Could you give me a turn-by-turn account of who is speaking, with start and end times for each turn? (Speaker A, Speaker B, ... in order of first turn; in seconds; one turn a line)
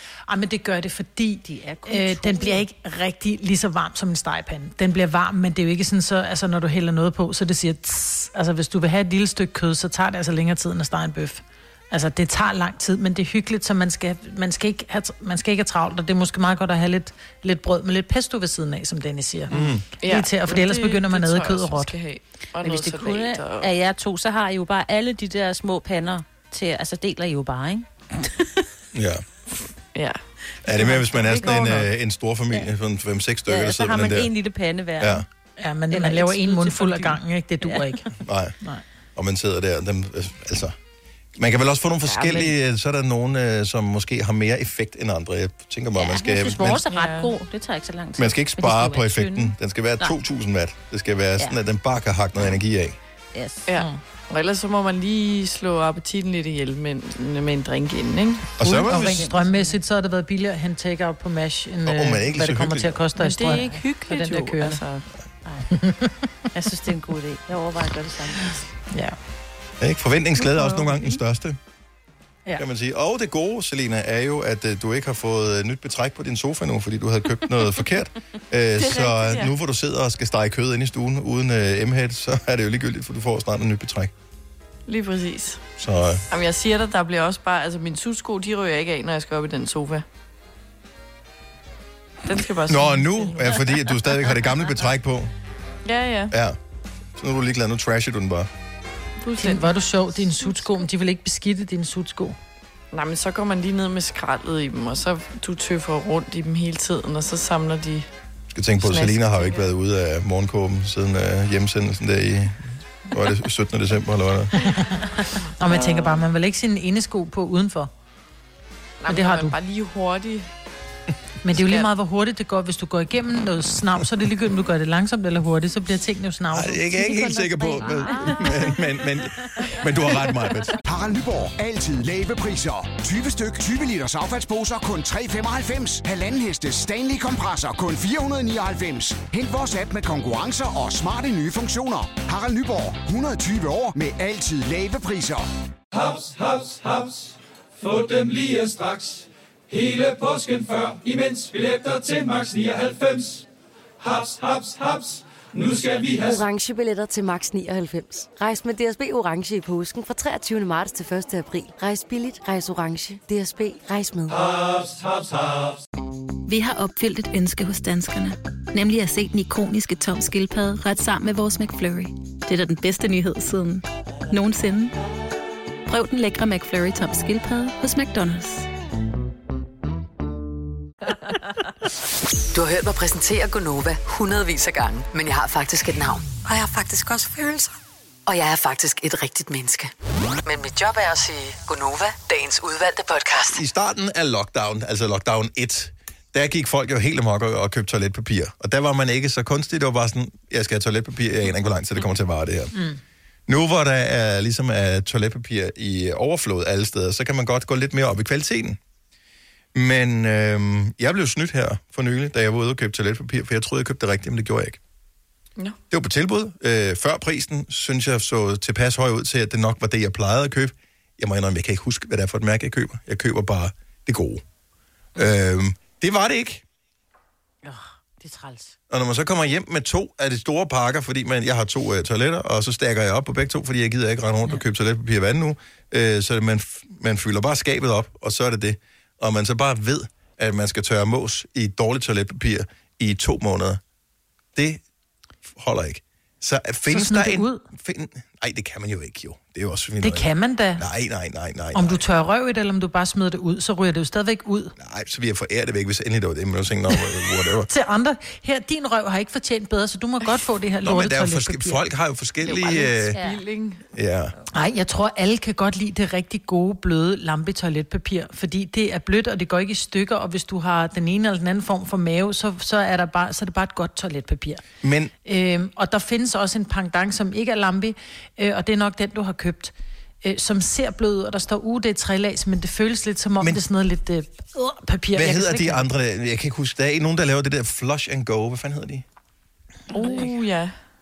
Speaker A: 0.3-21.9
Speaker B: 1.5-2.6
Speaker C: 19.5-19.8
Speaker D: 19.5-23.7
Speaker B: 22.6-28.6
Speaker C: 28.9-29.2
Speaker D: 29.9-31.9
Speaker C: 30.6-34.3
Speaker B: 33.5-35.3
Speaker C: 35.0-35.3
Speaker A: 35.6-38.1
Speaker B: 35.9-38.0
Speaker C: 38.2-38.5
Speaker C: 39.2-40.8
Speaker C: 41.4-46.8
Speaker D: 42.0-42.5
Speaker B: 46.0-50.2
Speaker D: 46.9-47.3
Speaker C: 48.2-53.0
Speaker B: 53.3-53.7
Speaker D: 53.7-58.5
Speaker C: 58.6-59.3
Speaker A: 58.6-64.8
Speaker B: 58.9-59.8
Speaker C: 61.9-63.0
Speaker D: 63.2-65.0
Speaker A: 65.7-66.2
Speaker B: 66.5-68.6
Speaker C: 69.8-71.6
Speaker C: 72.6-84.1
Speaker D: 78.8-79.5
Speaker D: 84.9-85.6
Speaker C: 85.8-86.2
Speaker D: 86.3-90.0
Speaker D: 92.2-93.8
Speaker C: 92.7-95.3
Speaker D: 95.8-96.3
Speaker C: 96.3-96.6
Speaker C: 97.2-98.5
Speaker D: 99.2-99.7
Speaker A: 99.4-102.4
Speaker D: 102.9-108.1
Speaker C: 108.5-114.5
Speaker D: 108.8-109.7
Speaker A: 114.6-117.9
Speaker D: 115.7-116.2
Speaker D: 119.0-120.5
Speaker A: 119.1-119.6
Speaker A: 121.4-127.3
Speaker D: 121.5-121.9
Speaker C: 126.5-130.8
Speaker B: 127.0-128.9
Speaker B: 129.6-129.8
Speaker E: 130.9-145.5
Speaker F: 146.0-147.3
Speaker F: 147.8-153.4
Speaker F: 154.1-155.9
Speaker G: 155.8-165.0
Speaker H: 166.5-174.9
Speaker H: 175.9-178.7
Speaker I: 182.5-187.7
Speaker I: 188.3-189.9
Speaker I: 190.4-193.6
Speaker C: 193.5-202.8
Speaker C: 203.5-208.8
Speaker C: 209.7-214.8
Speaker C: 215.9-224.4
Speaker C: 225.2-226.6
Speaker B: 227.6-228.8
Speaker C: 228.9-243.8
Speaker C: 244.6-244.8
Speaker C: 245.5-252.0
Speaker A: 246.9-247.6
Speaker A: 250.0-250.8
Speaker A: 251.7-254.8
Speaker C: 254.8-257.7
Speaker A: 257.6-261.8
Speaker C: 260.8-263.2
Speaker D: 262.4-263.8
Speaker B: 263.1-263.4
Speaker C: 263.9-264.3
Speaker A: 264.5-274.6
Speaker C: 274.8-275.1
Speaker A: 275.2-285.9
Speaker C: 285.1-289.1
Speaker D: 289.9-290.7